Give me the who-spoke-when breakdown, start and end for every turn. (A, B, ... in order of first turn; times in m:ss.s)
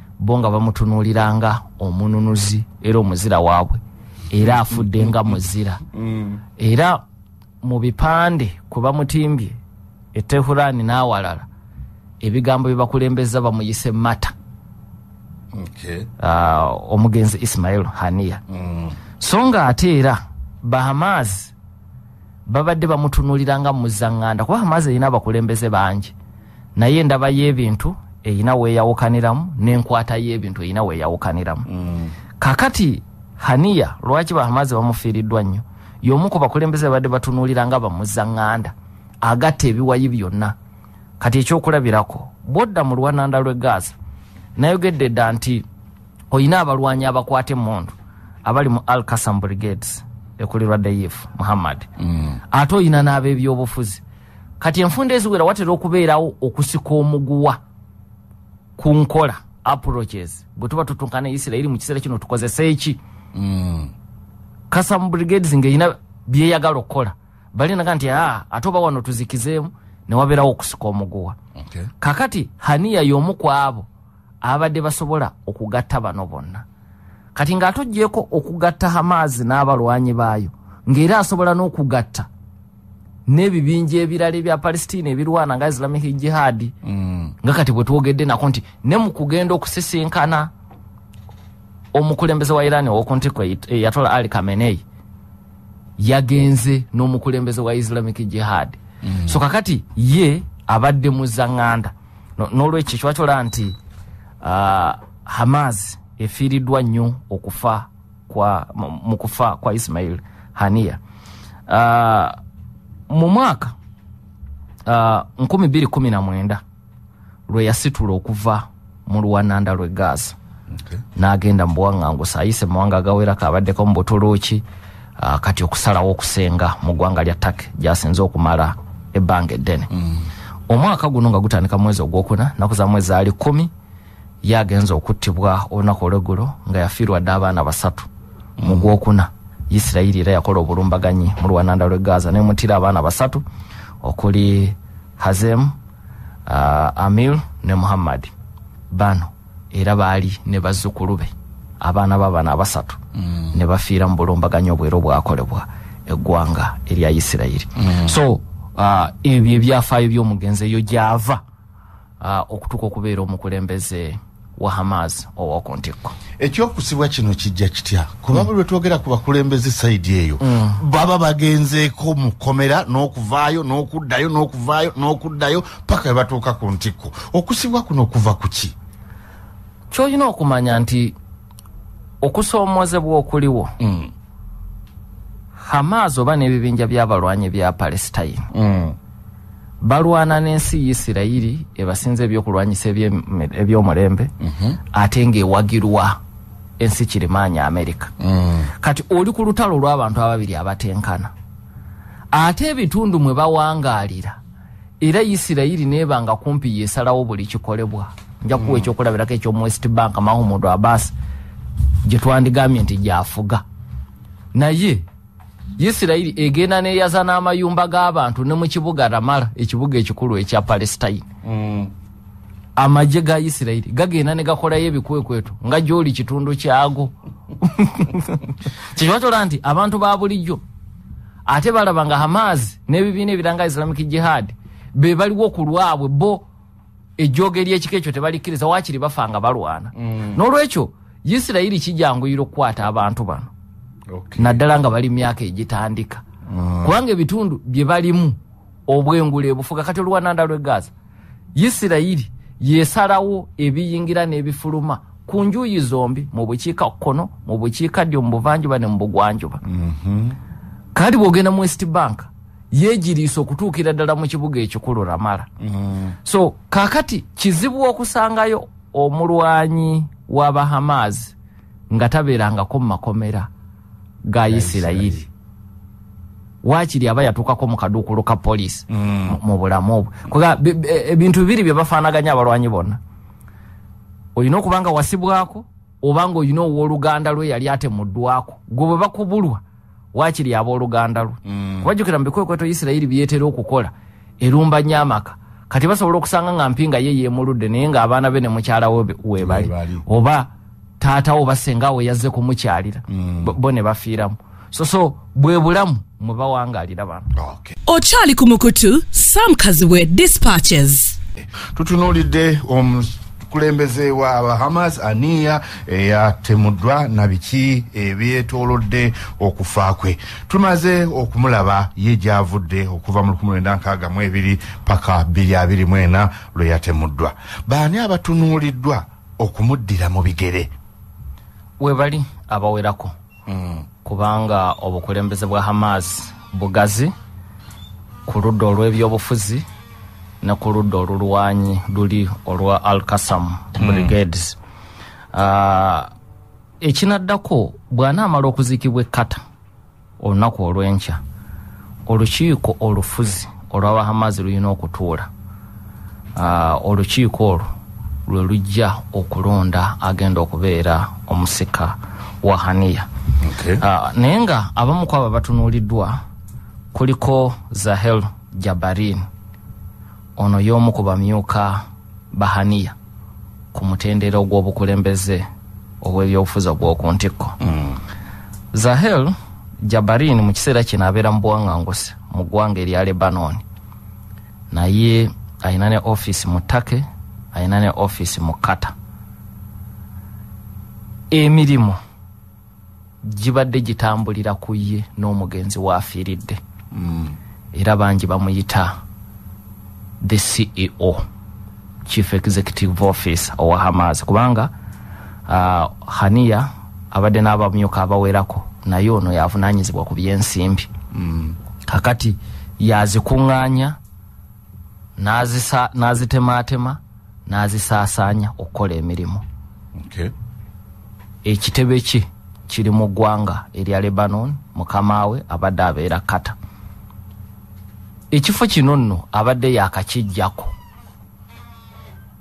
0:00.2-0:03.8 A
0:04.3-0:05.8 A
0:05.9-0:06.4 B
0:06.6-0:07.0 A
0:07.6-0:09.6 A
0:10.1-0:11.5 A
0:12.2-0:14.3 A
0:15.5-0:16.1 B
0:16.2-0:18.4 A
0:18.5-0:19.0 B
0:19.2-0:21.5 A
0:22.5-0:26.1 A
0:26.8-0:31.7 A
0:31.7-0:32.1 B
0:32.4-0:40.6 A
0:41.2-0:43.9 A
0:44.6-0:45.6 A
0:46.3-0:47.9 A
0:48.4-0:51.9 A
0:52.0-0:52.4 B
0:52.5-0:54.0 A
0:54.6-0:57.6 A
0:58.8-1:03.0 A
1:03.3-1:03.9 B
1:04.7-1:11.4 A
1:11.6-1:11.9 B
1:12.0-1:13.9 A
1:14.4-1:16.6 A
1:17.3-1:22.3 A
1:23.3-1:26.7 A
1:26.9-1:27.3 B
1:27.4-1:30.5 A
1:31.9-1:34.8 A
1:36.0-1:43.8 A
1:44.4-1:51.0 A
1:51.7-1:52.4 A
1:53.1-1:53.8 A
1:54.9-1:56.6 A
1:57.5-2:00.4 A
2:01.2-2:04.6 A
2:05.2-2:09.9 A
2:10.0-2:10.2 B
2:10.7-2:13.7 A
2:14.4-2:18.1 A
2:18.6-2:18.9 B
2:18.6-2:23.4 A
2:24.0-2:25.7 A
2:26.5-2:28.3 A
2:28.9-2:33.0 A
2:33.5-2:41.4 A
2:37.8-2:38.2 B
2:42.2-2:46.2 A
2:46.4-2:58.7 B
2:50.4-2:50.8 A
2:59.9-3:01.1 A
3:02.2-3:03.7 A
3:03.8-3:04.1 B
3:05.6-3:08.5 A
3:08.5-3:09.0 B
3:09.8-3:14.3 A
3:14.4-3:14.8 B
3:14.9-3:16.2 A
3:16.8-3:18.1 A
3:18.2-3:18.7 B
3:18.8-3:21.3 A
3:22.3-3:24.4 A
3:25.0-3:31.1 A
3:28.6-3:28.9 B
3:32.0-3:33.6 A
3:34.5-3:35.0 A
3:35.8-3:41.3 A
3:41.4-3:41.9 B
3:42.8-3:50.6 A
3:51.4-3:56.4 A
3:57.2-4:03.5 A
4:00.0-4:00.4 B
4:04.1-4:04.6 B
4:04.4-4:06.2 A
4:06.5-4:06.9 B
4:06.8-4:10.9 A
4:11.6-4:19.6 A
4:19.6-4:20.4 B
4:20.9-4:25.5 A
4:25.6-4:26.2 B
4:26.2-4:31.3 A
4:31.9-4:33.5 A
4:34.3-4:35.2 A
4:34.5-4:35.3 B
4:36.6-4:43.0 A
4:38.9-4:39.4 B
4:44.3-4:49.6 A
4:50.1-5:07.3 A
4:51.4-4:51.9 B
4:59.4-5:00.0 B
5:03.1-5:03.6 B
5:07.3-5:07.8 B
5:07.9-5:11.2 C
5:11.7-5:30.7 B
5:31.8-5:33.1 A
5:33.5-5:33.8 B
5:34.0-5:37.1 A
5:38.3-5:39.6 A
5:40.4-5:44.6 A
5:43.8-5:44.1 B
5:45.3-5:46.1 A
5:46.8-5:49.4 A
5:50.2-5:51.2 A
5:52.1-5:55.3 A
5:56.4-5:57.7 A
5:58.3-6:03.1 A
6:03.4-6:03.8 B
6:03.8-6:06.2 A
6:06.9-6:09.3 A
6:10.4-6:13.0 A
6:13.7-6:15.4 A
6:16.0-6:17.6 A
6:17.6-6:18.0 B
6:18.7-6:19.3 A
6:19.9-6:23.6 A
6:24.7-6:28.9 A
6:31.3-6:32.0 A
6:33.2-6:36.6 A
6:36.9-6:37.3 B
6:37.7-6:39.0 A
6:40.2-6:41.2 A
6:42.0-6:44.7 A
6:45.5-6:50.9 A
6:51.1-6:51.6 B
6:51.9-6:54.0 A
6:55.2-6:59.4 A
7:00.0-7:00.3 B
7:01.4-7:06.6 A
7:08.3-7:10.7 A